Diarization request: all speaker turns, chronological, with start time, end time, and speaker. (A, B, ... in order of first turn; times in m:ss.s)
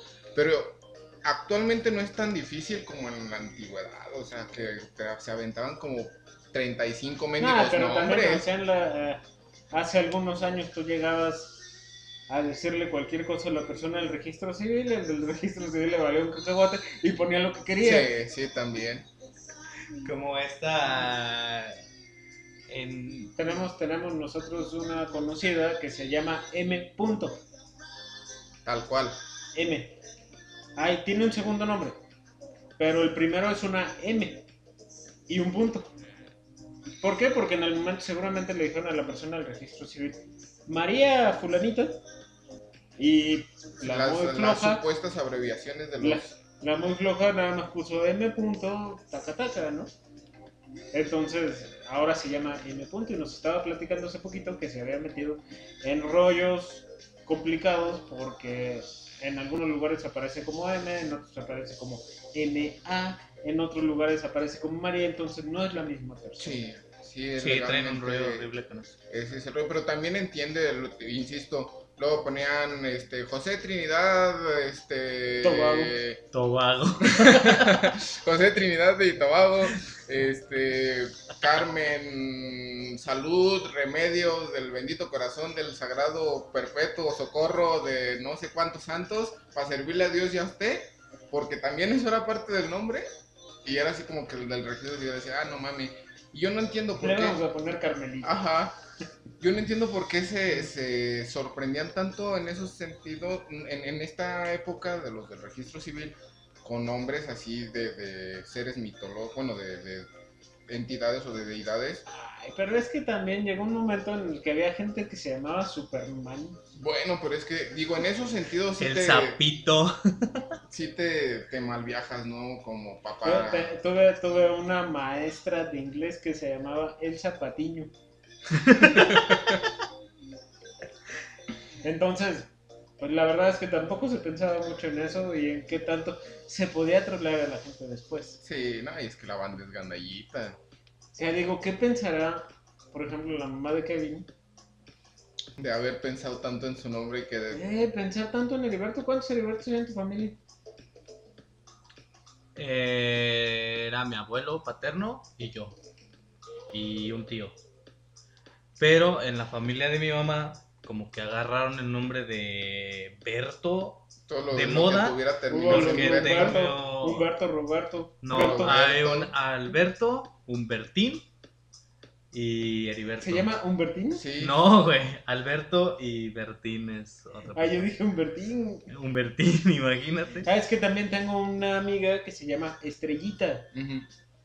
0:00.3-0:08.5 A
0:07.4-0:11.6 B
0:12.3-0:18.1 B
0:17.8-0:19.1 A
0:20.0-0:21.8 C
0:22.7-0:23.3 C
0:23.4-0:27.4 B
0:28.6-0:29.2 A
0:29.5-0:30.0 B
0:30.8-0:32.0 B
0:32.8-0:34.5 B
0:35.3-0:35.9 B
0:37.0-0:42.0 B
0:43.0-0:44.8 B
0:43.8-0:46.4 A
0:46.0-0:49.9 B
0:50.9-1:06.6 B
1:06.4-1:08.5 A
1:07.4-1:08.9 C
1:09.1-1:16.2 A
1:15.4-1:16.0 B
1:16.3-1:18.0 C
1:17.0-1:33.1 A
1:33.6-1:37.4 A
1:37.0-1:38.3 B
1:38.2-1:38.8 A
1:39.4-1:50.1 A
1:50.7-1:52.0 A
1:52.1-1:56.6 B
1:56.7-1:59.4 A
1:58.8-2:00.4 C
2:00.7-2:03.7 A
2:03.2-2:07.9 B
2:08.5-2:09.3 C
2:08.9-2:09.4 A
2:11.8-2:18.4 B
2:18.4-2:20.6 A
2:21.2-2:24.3 B
2:25.6-2:27.6 A
2:27.5-2:30.4 B
2:32.6-2:35.8 C
2:36.7-2:37.5 C
2:38.8-2:47.3 C
2:44.3-2:46.6 A
2:45.5-2:48.7 B
2:48.2-2:51.2 C
2:48.3-2:49.3 A
2:52.3-2:53.5 C
2:53.2-2:54.2 B
2:54.1-2:54.6 A
2:54.4-2:57.9 C
2:57.5-2:58.9 B
2:58.9-3:00.5 C
3:00.4-3:03.7 B
3:03.7-3:04.1 A